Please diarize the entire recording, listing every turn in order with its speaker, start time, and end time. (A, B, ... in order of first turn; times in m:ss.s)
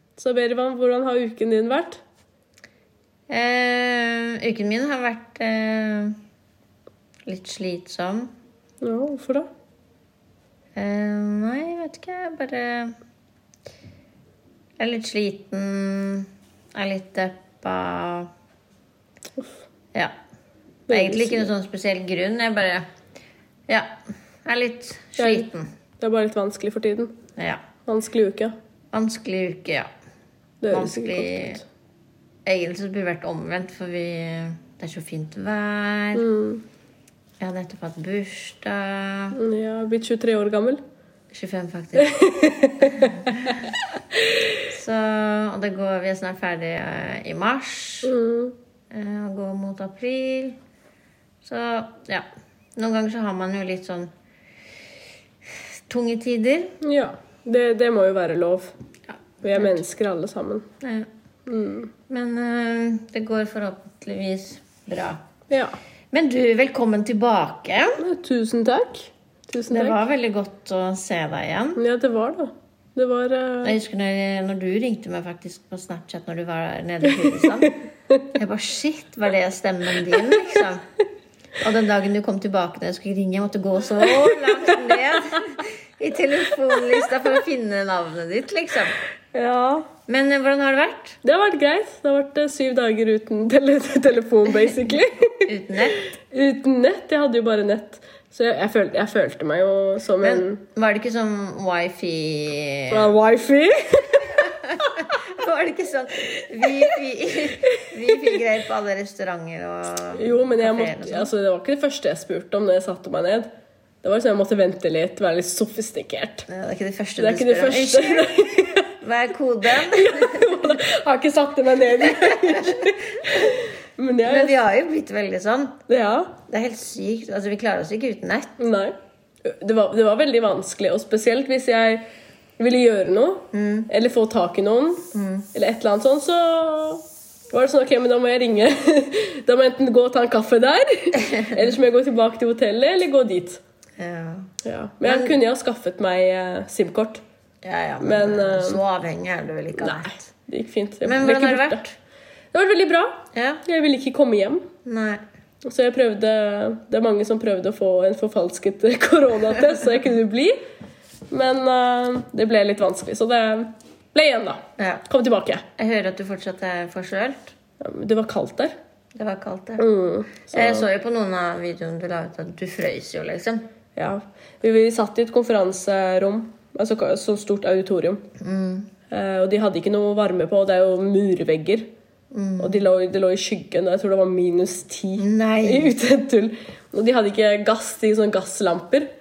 0:00.2-0:02.0 A
0:03.3-0:06.2 B
0:07.3-0:08.3 B
0:08.8-0:09.5 A
0:10.8-0:13.0 B
0:14.8-0:18.3 B
0:20.9-0:21.5 A
0:20.9-0:22.9 B
0:23.7-0:23.9 B
0:24.4-0:25.7 B
0:25.2-0:25.5 A
0:26.0-0:27.2 A
0:27.9-0:28.5 A
0:28.9-0:29.9 B
0:30.6-0:31.6 A
0:30.7-0:31.6 B
0:32.4-0:36.3 B
0:36.2-0:36.6 A
0:37.4-0:39.4 B
0:39.3-0:40.8 A
0:41.3-0:42.2 B
0:42.0-0:43.6 A
0:44.7-0:48.1 B
0:48.0-0:48.6 A
0:48.9-0:50.6 B
0:51.4-0:52.2 B
0:52.8-0:54.1 B
0:55.9-0:56.8 B
0:56.8-0:58.7 A
0:59.1-0:59.8 B
0:59.4-1:00.7 A
1:00.8-1:01.1 B
1:01.5-1:01.9 A
1:02.1-1:05.2 B
1:05.5-1:05.8 A
1:06.1-1:08.0 B
1:08.0-1:10.0 A
1:09.7-1:11.8 B
1:11.8-1:13.8 A
1:13.6-1:17.8 B
1:18.3-1:20.8 B
1:21.6-1:29.0 B
1:29.3-1:29.9 A
1:30.1-1:31.2 B
1:31.2-1:35.5 A
1:35.5-1:36.1 B
1:36.3-1:40.6 A
1:40.2-1:43.2 B
1:42.9-1:44.5 A
1:44.6-1:51.3 B
1:50.1-1:53.5 A
1:54.0-1:56.5 A
1:56.5-2:00.5 B
1:57.2-1:58.9 A
1:59.7-2:04.6 A
2:04.2-2:05.8 B
2:05.9-2:06.4 A
2:06.5-2:08.5 B
2:08.6-2:12.1 A
2:12.6-2:23.6 A
2:13.5-2:13.9 B
2:15.1-2:15.5 B
2:24.0-2:24.5 B
2:24.6-2:27.2 A
2:25.0-2:25.3 B
2:27.6-2:30.3 B
2:28.0-2:28.8 A
2:29.8-2:31.8 A
2:31.0-2:32.0 B
2:32.5-2:34.7 A
2:33.3-2:33.6 B
2:34.8-2:35.2 B
2:35.6-2:40.6 A
2:41.3-2:45.6 A
2:44.8-2:45.0 B
2:45.8-2:47.5 B
2:47.8-2:48.8 A
2:49.2-2:49.8 B
2:49.8-2:50.8 A
2:50.4-2:53.7 B
2:54.0-2:58.2 A
2:58.4-2:58.9 B
2:59.1-3:01.9 A
3:02.3-3:02.9 B
3:02.6-3:09.1 A
3:05.2-3:05.9 B